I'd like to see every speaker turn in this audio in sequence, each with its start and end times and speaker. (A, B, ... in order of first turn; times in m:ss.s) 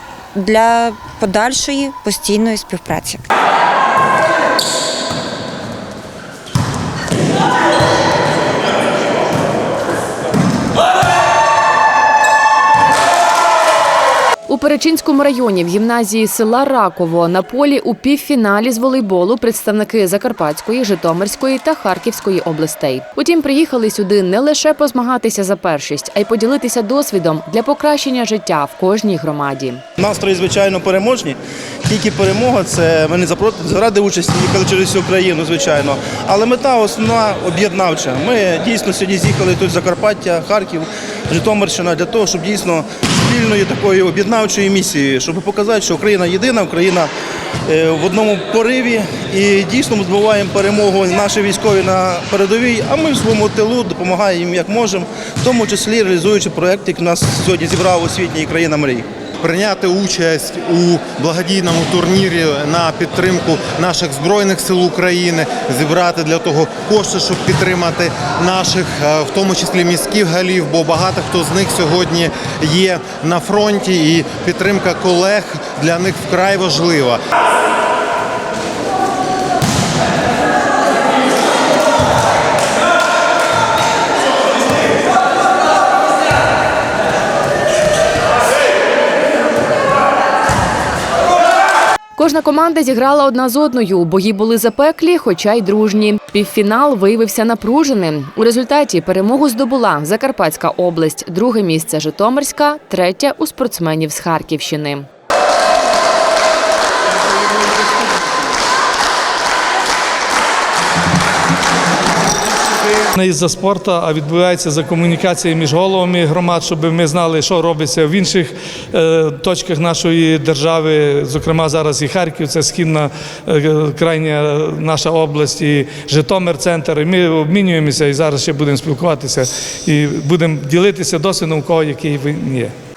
0:00.3-0:03.2 A
0:14.5-0:29.8 B
0:30.0-0:47.1 C
0:47.7-0:59.1 C
0:59.4-1:17.2 D
1:32.2-1:45.1 B
1:53.2-2:12.7 E